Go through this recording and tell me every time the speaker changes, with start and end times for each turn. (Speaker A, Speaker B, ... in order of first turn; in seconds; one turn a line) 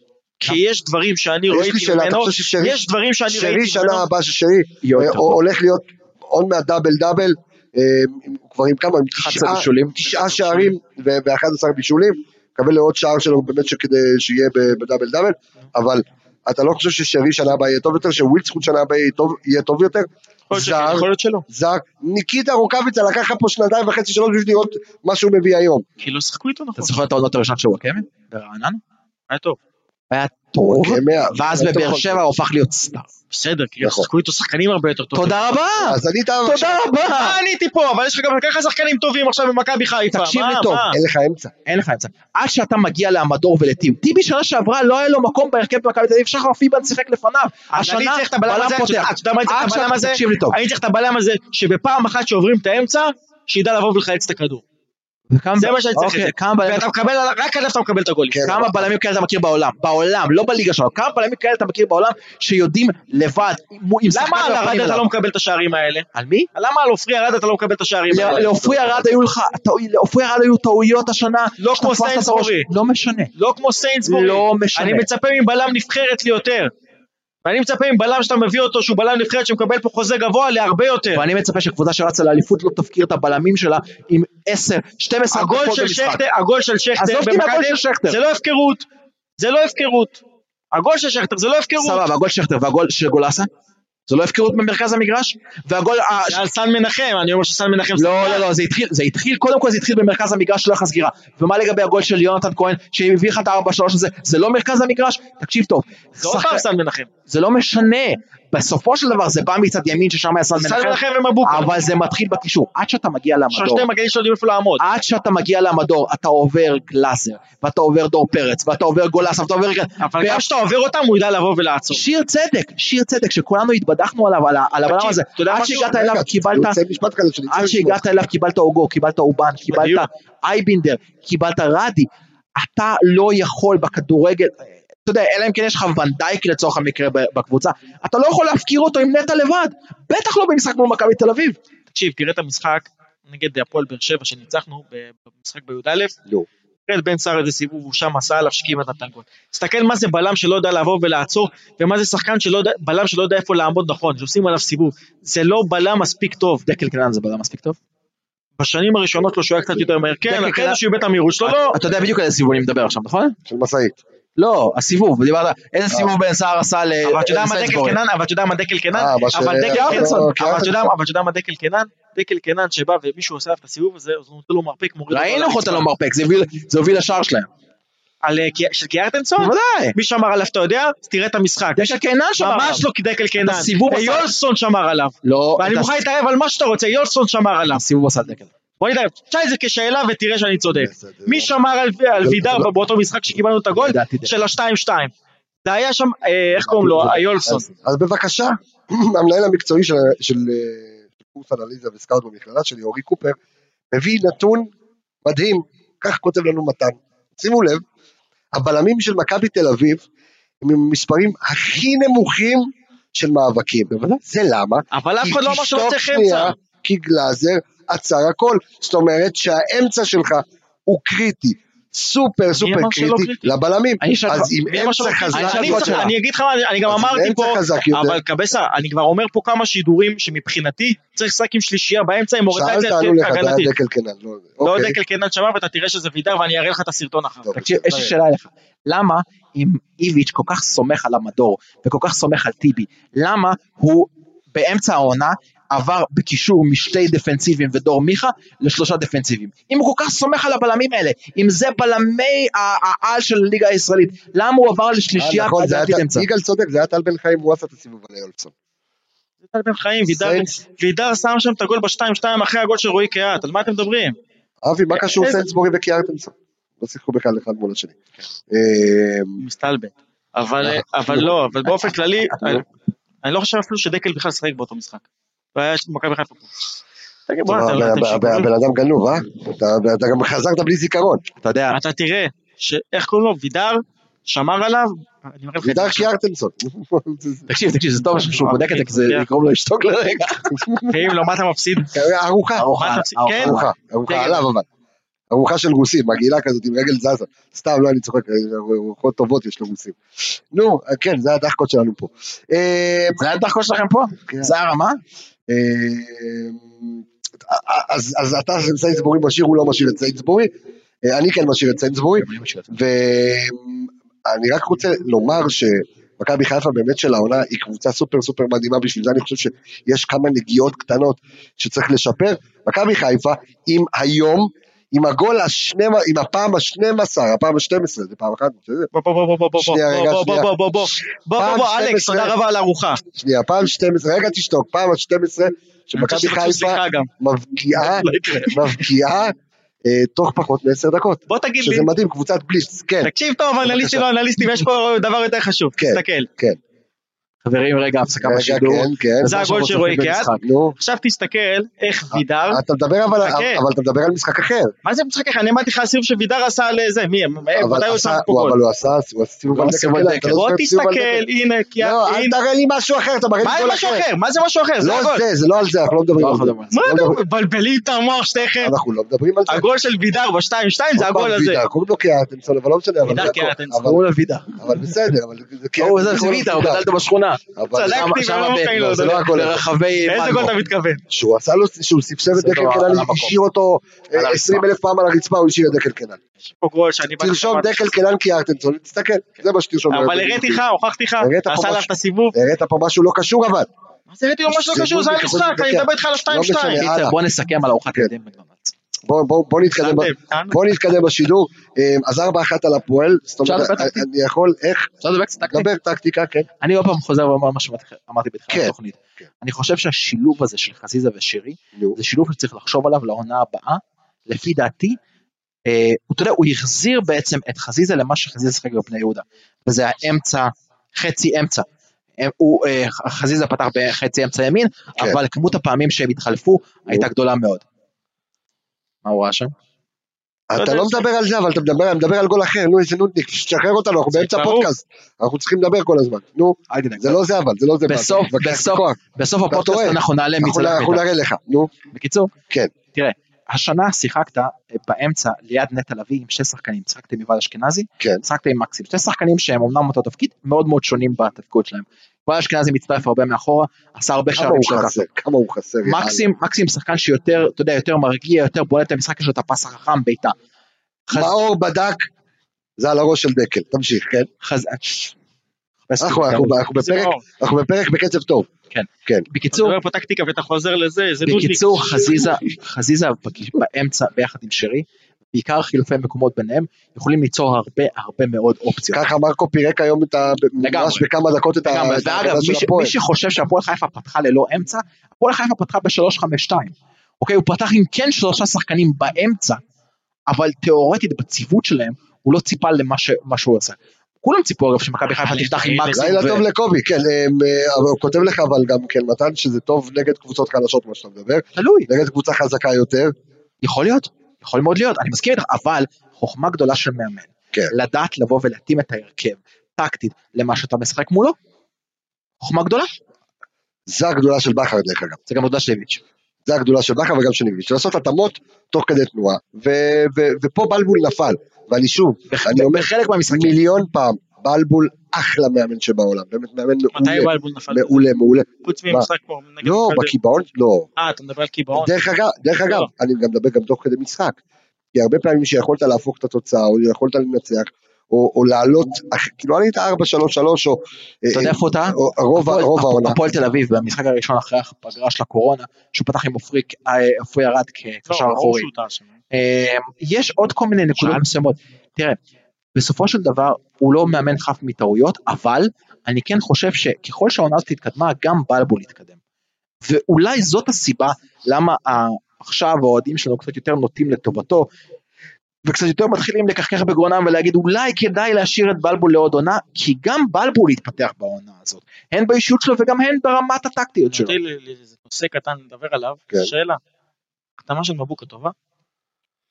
Speaker A: 0.4-4.0
Speaker B: 1.5-25.8
Speaker C: 4.8-5.4
Speaker C: 9.1-10.2
Speaker A: 10.3-10.5
Speaker A: 20.5-21.4
Speaker A: 26.0-27.0
Speaker C: 26.8-28.8
Speaker A: 29.3-29.6
Speaker C: 30.1-33.1
Speaker B: 30.6-32.2
Speaker A: 33.3-35.5
Speaker B: 33.8-34.1
Speaker C: 35.1-37.4
Speaker B: 35.8-36.8
Speaker A: 37.0-41.0
Speaker C: 40.1-40.9
Speaker B: 40.9-41.5
Speaker C: 41.6-50.6
Speaker A: 47.7-54.6
Speaker C: 55.3-56.8
Speaker A: 55.6-58.4
Speaker B: 58.3-58.9
Speaker C: 58.4-65.0
Speaker A: 64.1-68.8
Speaker C: 66.1-66.5
Speaker C: 68.1-73.3
Speaker B: 68.4-69.0
Speaker A: 71.6-72.7
Speaker A: 73.3-76.7
Speaker C: 74.0-75.1
Speaker A: 77.4-81.2
Speaker C: 81.1-86.2
Speaker A: 85.3-88.8
Speaker C: 87.0-88.2
Speaker A: 89.4-90.2
Speaker A: 90.7-92.0
Speaker C: 91.8-93.5
Speaker C: 94.1-96.4
Speaker A: 96.3-98.5
Speaker C: 98.0-106.6
Speaker A: 106.2-107.1
Speaker C: 107.3-113.9
Speaker A: 110.5-111.8
Speaker A: 113.5-114.8
Speaker C: 114.8-120.5
Speaker A: 120.0-122.0
Speaker C: 121.9-126.8
Speaker A: 124.9-125.9
Speaker B: 125.9-128.1
Speaker C: 127.5-141.6
Speaker A: 129.7-130.1
Speaker A: 141.9-146.1
Speaker A: 146.9-156.6
Speaker C: 156.6-157.8
Speaker A: 158.6-161.8
Speaker C: 160.3-160.8
Speaker C: 161.4-163.4
Speaker B: 163.5-164.0
Speaker C: 164.4-168.0
Speaker A: 167.0-175.9
Speaker B: 168.9-170.7
Speaker C: 169.7-170.3
Speaker C: 175.1-177.5
Speaker A: 178.2-187.8
Speaker C: 179.4-179.9
Speaker C: 181.8-182.8
Speaker C: 183.4-184.3
Speaker C: 185.2-186.0
Speaker C: 187.7-188.5
Speaker A: 188.8-195.1
Speaker B: 190.7-191.5
Speaker B: 192.2-192.7
Speaker C: 193.7-194.3
Speaker A: 195.6-197.7
Speaker B: 196.6-203.4
Speaker B: 203.9-204.7
Speaker B: 205.2-207.8
Speaker B: 208.5-210.0
Speaker B: 210.6-226.1
Speaker A: 214.9-216.5
Speaker A: 222.6-223.5
Speaker C: 224.0-224.5
Speaker A: 224.7-233.7
Speaker C: 225.3-226.1
Speaker B: 226.8-228.2
Speaker B: 232.5-235.0
Speaker A: 234.6-237.7
Speaker B: 237.4-238.1
Speaker C: 237.6-256.3
Speaker B: 255.2-258.5
Speaker A: 259.5-264.1
Speaker B: 260.1-260.5
Speaker B: 264.6-267.9
Speaker A: 265.1-265.4
Speaker B: 268.5-269.4
Speaker A: 269.4-272.6
Speaker B: 270.6-271.3
Speaker A: 273.2-276.6
Speaker A: 277.3-278.5
Speaker B: 277.4-281.2
Speaker C: 281.4-281.8
Speaker A: 281.7-286.1
Speaker B: 285.6-287.5
Speaker C: 287.5-290.6
Speaker A: 288.2-289.2
Speaker B: 290.4-291.0
Speaker A: 290.9-291.9
Speaker B: 291.9-292.7
Speaker C: 292.6-294.4
Speaker A: 292.8-293.6
Speaker B: 293.4-294.6
Speaker B: 295.3-300.0
Speaker B: 300.5-303.2
Speaker C: 303.2-305.0
Speaker B: 304.3-304.5
Speaker B: 305.5-310.5
Speaker B: 311.0-328.9
Speaker C: 312.2-312.7
Speaker A: 328.9-333.0
Speaker B: 329.6-330.5
Speaker B: 331.4-332.3
Speaker B: 333.1-343.1
Speaker A: 335.9-337.1
Speaker A: 337.8-338.8
Speaker A: 341.3-341.9
Speaker A: 343.0-346.3
Speaker B: 343.6-344.0
Speaker B: 345.8-346.6
Speaker C: 347.4-350.4
Speaker B: 348.2-349.4
Speaker A: 349.2-352.6
Speaker B: 350.4-350.8
Speaker B: 352.1-354.7
Speaker A: 353.2-353.6
Speaker A: 354.8-358.6
Speaker B: 357.6-361.2
Speaker C: 359.5-360.4
Speaker A: 360.3-362.4
Speaker B: 361.8-364.1
Speaker A: 363.4-365.2
Speaker B: 364.8-367.2
Speaker C: 366.2-366.8
Speaker A: 366.7-368.7
Speaker B: 368.6-369.6
Speaker A: 369.5-371.6
Speaker B: 371.0-374.0
Speaker A: 373.0-373.9
Speaker C: 373.8-374.8
Speaker B: 374.6-376.9
Speaker C: 375.8-380.5
Speaker B: 377.6-378.1
Speaker A: 377.7-379.3
Speaker B: 378.8-379.6
Speaker A: 380.1-381.0
Speaker B: 381.1-386.2
Speaker C: 382.3-383.4
Speaker C: 384.1-384.6
Speaker A: 386.6-387.9
Speaker B: 387.2-390.6
Speaker A: 389.9-392.3
Speaker B: 391.2-393.7
Speaker A: 394.1-396.9
Speaker B: 394.5-397.1
Speaker C: 396.8-398.7
Speaker B: 399.1-404.9
Speaker A: 399.8-400.6
Speaker C: 403.4-404.0
Speaker C: 405.0-405.7
Speaker B: 405.5-406.5
Speaker C: 406.6-415.0
Speaker C: 415.7-421.6
Speaker C: 422.2-427.6
Speaker C: 429.0-429.5
Speaker B: 430.5-439.0
Speaker A: 430.6-431.0
Speaker A: 434.2-434.7
Speaker C: 436.7-437.2
Speaker C: 437.9-441.1
Speaker B: 439.5-441.7
Speaker C: 441.9-442.3
Speaker C: 442.9-455.0
Speaker B: 454.3-456.3
Speaker C: 455.8-460.3
Speaker B: 461.1-462.1
Speaker B: 462.8-464.3
Speaker C: 464.4-465.1
Speaker C: 465.9-466.6
Speaker B: 466.0-468.5
Speaker A: 466.7-467.2
Speaker C: 468.7-469.7
Speaker A: 469.5-472.2
Speaker C: 471.2-479.0
Speaker B: 478.9-482.9
Speaker C: 480.6-481.1
Speaker C: 481.6-489.6
Speaker C: 490.3-496.4
Speaker A: 495.2-496.1
Speaker B: 495.9-503.1
Speaker C: 501.6-501.9
Speaker C: 503.6-511.4
Speaker C: 512.4-512.9
Speaker B: 513.9-515.2
Speaker C: 515.3-516.0
Speaker B: 516.5-529.1
Speaker C: 522.3-523.6
Speaker A: 526.9-528.0
Speaker A: 528.6-530.1
Speaker B: 529.6-530.9
Speaker A: 531.0-531.9
Speaker B: 531.7-534.4
Speaker B: 534.9-543.2
Speaker C: 541.3-548.7
Speaker A: 548.1-549.0
Speaker C: 549.3-552.2
Speaker C: 552.7-559.1
Speaker C: 559.8-564.7
Speaker C: 565.6-574.3
Speaker A: 574.1-576.8
Speaker A: 577.6-578.5